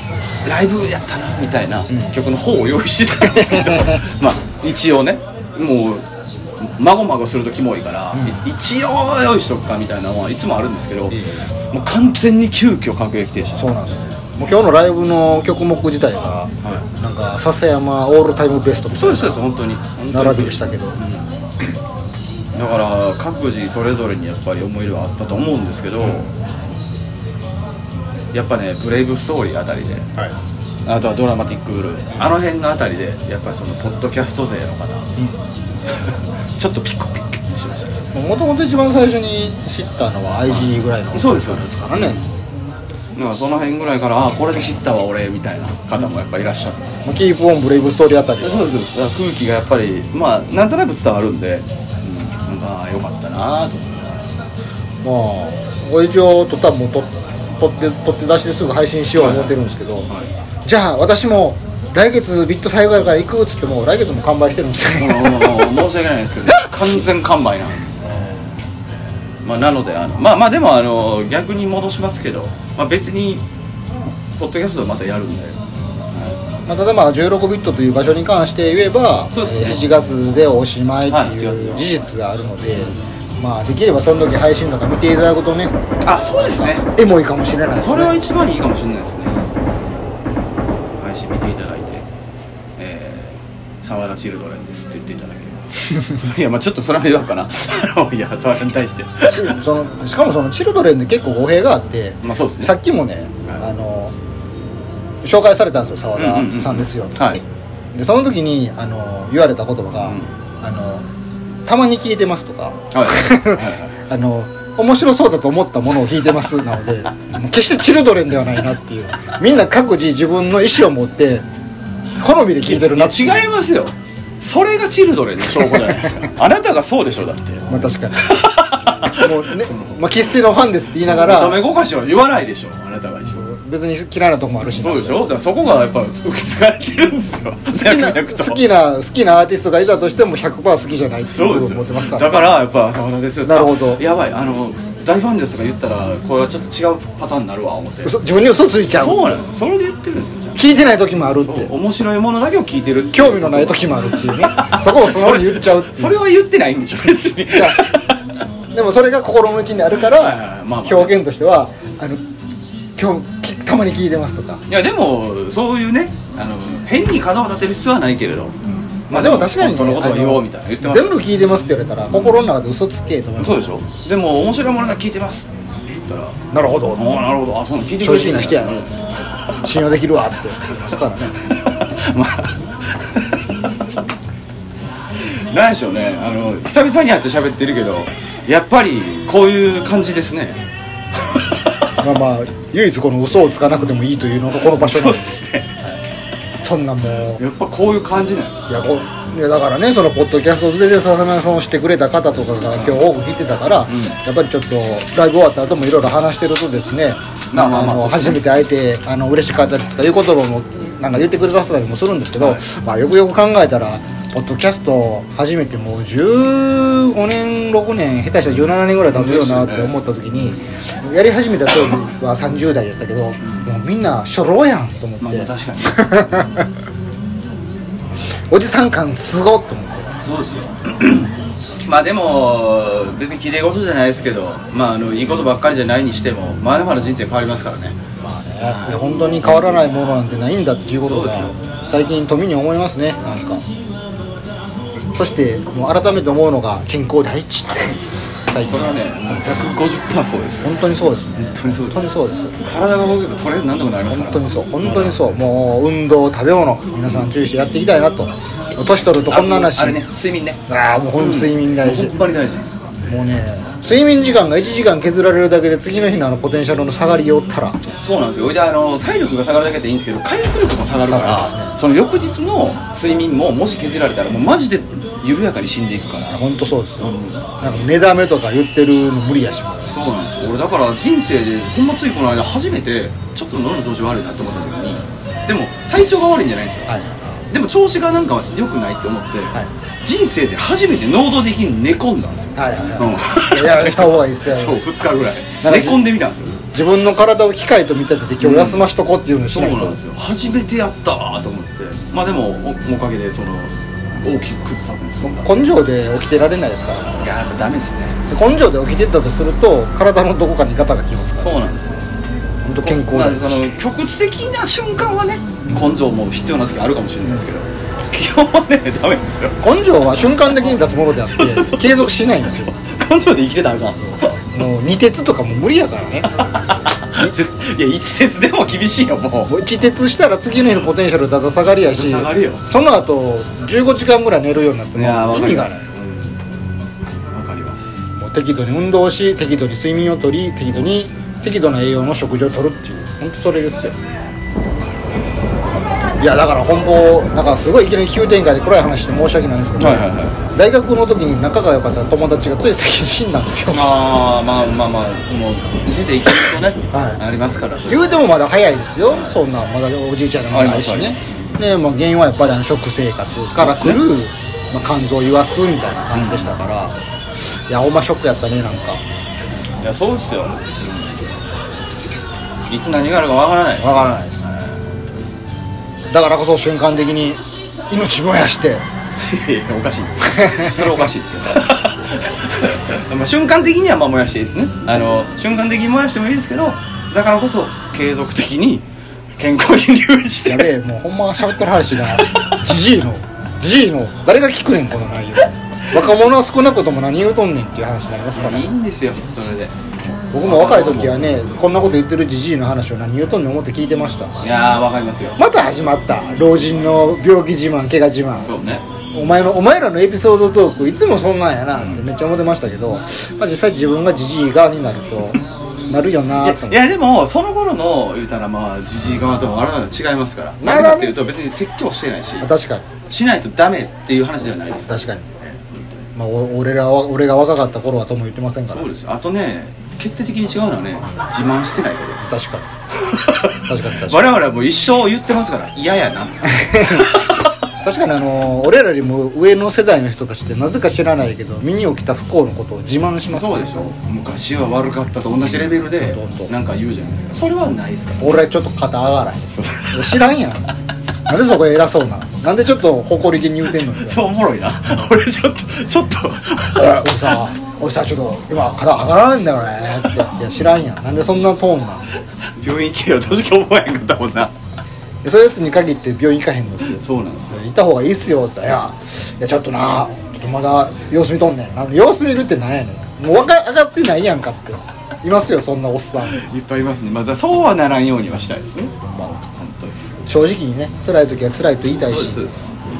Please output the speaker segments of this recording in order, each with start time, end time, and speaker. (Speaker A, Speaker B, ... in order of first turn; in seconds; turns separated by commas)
Speaker A: 0.4-6.0, Speaker B: 1.9-2.2, Speaker B: 3.2-4.0, Speaker A: 6.6-11.2, Speaker B: 8.1-8.4, Speaker B: 11.1-11.5, Speaker A: 11.7-13.9, Speaker B: 13.6-19.5, Speaker A: 18.9-21.3, Speaker B: 20.1-21.0, Speaker A: 22.5-26.3, Speaker B: 26.0-26.3, Speaker A: 28.3-30.1, Speaker A: 30.9-35.1, Speaker A: 35.9-38.0, Speaker B: 38.1-42.2, Speaker A: 40.5-42.2, Speaker A: 43.1-47.0, Speaker B: 47.0-48.7, Speaker A: 48.4-54.2, Speaker B: 55.0-60.1, Speaker A: 59.2-59.5, Speaker B: 60.6-65.8, Speaker A: 65.0-68.5, Speaker A: 69.4-73.4, Speaker A: 74.4-75.6, Speaker B: 76.7-85.7, Speaker A: 79.3-79.9, Speaker A: 81.1-82.0, Speaker A: 86.0-86.9, Speaker B: 86.4-88.2, Speaker A: 87.8-89.7, Speaker A: 91.0-92.0, Speaker A: 92.8-99.6, Speaker B: 99.3-104.1, Speaker A: 102.2-102.7, Speaker B: 105.2-107.4, Speaker A: 106.2-107.4, Speaker B: 107.9-111.1, Speaker B: 111.7-121.5, Speaker A: 112.9-113.9, Speaker B: 122.2-123.5, Speaker A: 122.7-127.7, Speaker B: 125.7-126.0, Speaker B: 127.7-131.6, Speaker A: 128.2-129.9, Speaker A: 131.0-133.4, Speaker B: 133.2-135.3, Speaker A: 134.8-138.6, Speaker B: 137.7-142.5, Speaker A: 141.3-148.1, Speaker B: 143.4-144.0, Speaker B: 148.0-149.4, Speaker A: 148.9-150.6, Speaker B: 150.6-151.7, Speaker A: 151.4-158.1, Speaker B: 153.1-156.2, Speaker B: 157.5-157.9, Speaker B: 158.7-162.2, Speaker A: 160.1-161.1, Speaker B: 163.0-164.6, Speaker A: 164.7-168.5, Speaker B: 168.7-173.7, Speaker A: 169.1-171.2, Speaker A: 172.1-172.4, Speaker A: 173.4-176.4, Speaker B: 176.5-177.2, Speaker A: 177.0-179.7, Speaker B: 178.0-179.0, Speaker B: 179.6-181.4, Speaker A: 181.9-183.1, Speaker A: 185.3-190.6, Speaker B: 192.0-196.0, Speaker A: 194.6-195.7, Speaker B: 196.6-197.4, Speaker A: 197.4-198.6, Speaker B: 198.7-226.7, Speaker A: 203.9-204.2, Speaker A: 207.5-208.4, Speaker A: 219.1-219.9, Speaker A: 223.4-223.7, Speaker A: 225.2-226.0, Speaker B: 228.5-230.2, Speaker A: 230.2-231.3, Speaker A: 231.8-238.0, Speaker B: 238.2-243.6, Speaker A: 238.6-239.9, Speaker A: 241.0-241.5, Speaker B: 245.2-249.7, Speaker A: 248.7-250.7, Speaker B: 250.6-252.6, Speaker A: 251.4-255.2, Speaker B: 254.1-260.0, Speaker A: 259.3-260.6, Speaker B: 260.7-262.2, Speaker A: 261.2-262.7, Speaker B: 263.1-267.8, Speaker A: 268.0-276.4, Speaker B: 271.1-271.8, Speaker B: 276.3-279.9, Speaker A: 277.0-277.6, Speaker A: 279.9-286.9, Speaker B: 286.9-287.2, Speaker A: 287.5-296.6, Speaker B: 292.6-294.9, Speaker B: 295.6-296.1, Speaker B: 296.7-300.0, Speaker A: 298.4-298.9, Speaker A: 299.5-305.6, Speaker B: 305.2-307.3, Speaker A: 307.2-308.2, Speaker B: 308.3-311.6, Speaker A: 311.4-312.0, Speaker B: 312.6-313.7, Speaker A: 312.8-319.5, Speaker B: 319.6-322.7, Speaker A: 321.3-324.3, Speaker B: 324.1-326.3, Speaker A: 327.1-329.5, Speaker B: 329.5-335.9, Speaker A: 331.9-332.6, Speaker A: 334.9-336.4, Speaker A: 337.3-338.0, Speaker B: 338.2-344.0, Speaker A: 340.7-341.2, Speaker A: 344.8-345.2, Speaker B: 346.2-353.9, Speaker A: 349.8-350.4, Speaker A: 353.7-358.2, Speaker B: 356.9-357.2, Speaker B: 357.9-369.0, Speaker A: 359.1-359.4, Speaker A: 360.5-361.6, Speaker A: 363.6-364.0, Speaker A: 366.1-366.5, Speaker A: 369.8-371.3, Speaker A: 372.7-375.0, Speaker B: 373.8-374.4, Speaker B: 376.1-378.9, Speaker A: 379.2-388.9, Speaker B: 380.2-381.1, Speaker A: 389.4-390.7, Speaker B: 390.4-398.7, Speaker A: 398.4-399.7, Speaker B: 400.3-404.5, Speaker A: 400.4-401.3, Speaker A: 404.4-405.4, Speaker B: 405.4-408.6, Speaker A: 408.4-408.8, Speaker B: 409.1-416.8, Speaker A: 416.3-422.5, Speaker B: 420.6-421.2, Speaker B: 422.4-422.9, Speaker A: 423.1-426.1, Speaker B: 424.9-425.3, Speaker B: 426.1-428.9, Speaker A: 428.7-432.3, Speaker B: 432.2-432.7, Speaker A: 433.1-437.4, Speaker B: 433.6-434.4, Speaker B: 436.4-437.2, Speaker B: 437.8-443.7, Speaker A: 443.3-448.4, Speaker B: 446.0-446.5, Speaker B: 448.2-450.7, Speaker A: 449.6-450.1, Speaker B: 451.3-454.2, Speaker A: 453.7-457.3, Speaker B: 456.8-462.1, Speaker A: 462.6-464.5, Speaker B: 465.2-476.4, Speaker A: 467.0-467.6, Speaker A: 476.4-478.9, Speaker B: 479.0-479.4, Speaker A: 479.6-479.9, Speaker B: 480.3-482.4, Speaker A: 482.1-482.8